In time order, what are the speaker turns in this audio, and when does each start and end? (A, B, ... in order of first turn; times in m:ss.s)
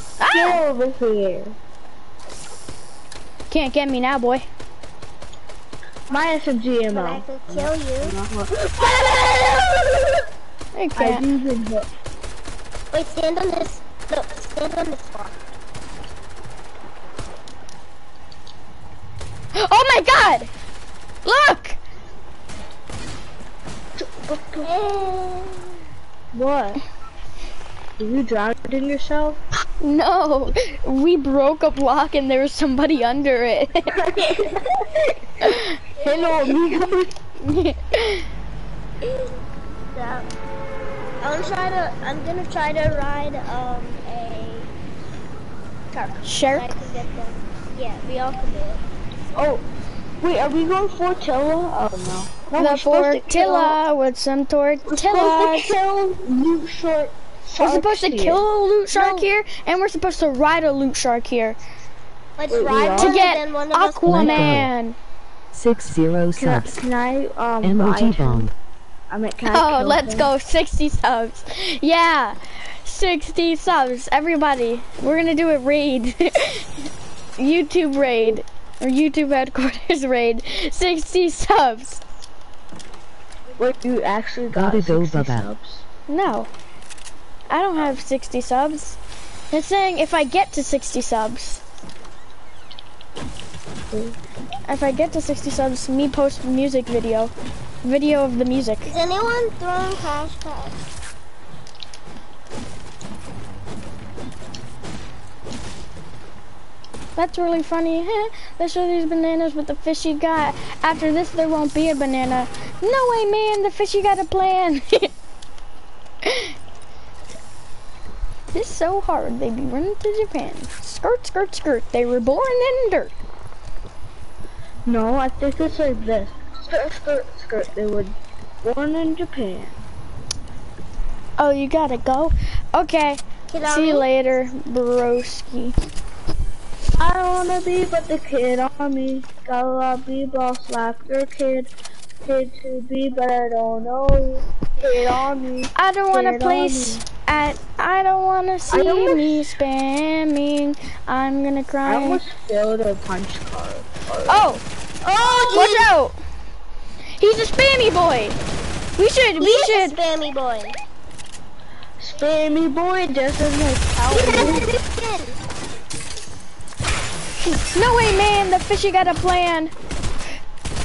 0:00.2-0:00.6 A
0:00.3-0:01.6 B
0:03.5-0:04.4 A
0:06.1-0:10.2 B
0:06.9-0:08.1 C
0:10.7-0:11.2 A
0:11.0-0:11.9 B
0:12.9-0:15.4 C
0:19.5-0:20.5 A
0:21.2-0:21.8 A
0:24.0-0:24.7 B
0:24.6-0:25.8 C
0:26.3-0:26.8 B
0:28.0-0:29.4 B
0:29.8-0:34.0 A
0:33.9-0:35.5 B
0:34.2-0:34.8 C
0:35.4-0:35.8 A
0:36.0-0:37.1 B
0:36.0-0:36.6 C
0:37.4-0:38.3 A
0:39.0-0:39.4 C
0:39.9-0:40.3 C
0:41.2-0:44.7 C
0:45.9-0:48.8 C
0:46.2-0:46.7 A
0:49.3-0:49.6 B
0:50.2-0:53.8 B
0:52.6-0:55.7 A
0:54.8-0:58.4 B
0:57.6-1:01.6 A
0:58.9-0:59.3 C
1:02.4-1:04.6 C
1:02.5-1:03.2 B
1:03.0-1:05.0 A
1:04.0-1:04.7 D
1:05.5-1:06.8 D
1:06.4-1:08.5 B
1:07.6-1:08.5 D
1:09.1-1:10.3 B
1:09.5-1:16.7 A
1:17.4-1:22.0 A
1:23.6-1:25.8 B
1:24.5-1:25.5 D
1:26.1-1:26.5 A
1:27.5-1:29.0 A
1:29.5-1:31.6 A
1:33.9-1:34.2 B
1:34.7-1:38.9 A
1:38.9-1:40.8 C
1:47.2-1:55.1 A
1:56.2-1:56.5 A
1:58.5-2:03.1 A
2:04.9-2:09.8 B
2:11.4-2:15.8 A
2:13.5-2:14.1 C
2:17.0-2:21.7 B
2:22.2-2:27.0 B
2:25.8-2:32.2 A
2:28.7-2:29.4 B
2:31.8-2:34.5 B
2:34.3-2:34.6 A
2:35.0-2:35.9 C
2:35.1-2:35.5 B
2:35.5-2:36.1 A
2:37.2-2:38.4 A
2:39.0-2:40.0 A
2:39.4-2:40.8 C
2:42.0-2:44.7 B
2:44.1-2:45.4 C
2:47.4-2:49.7 A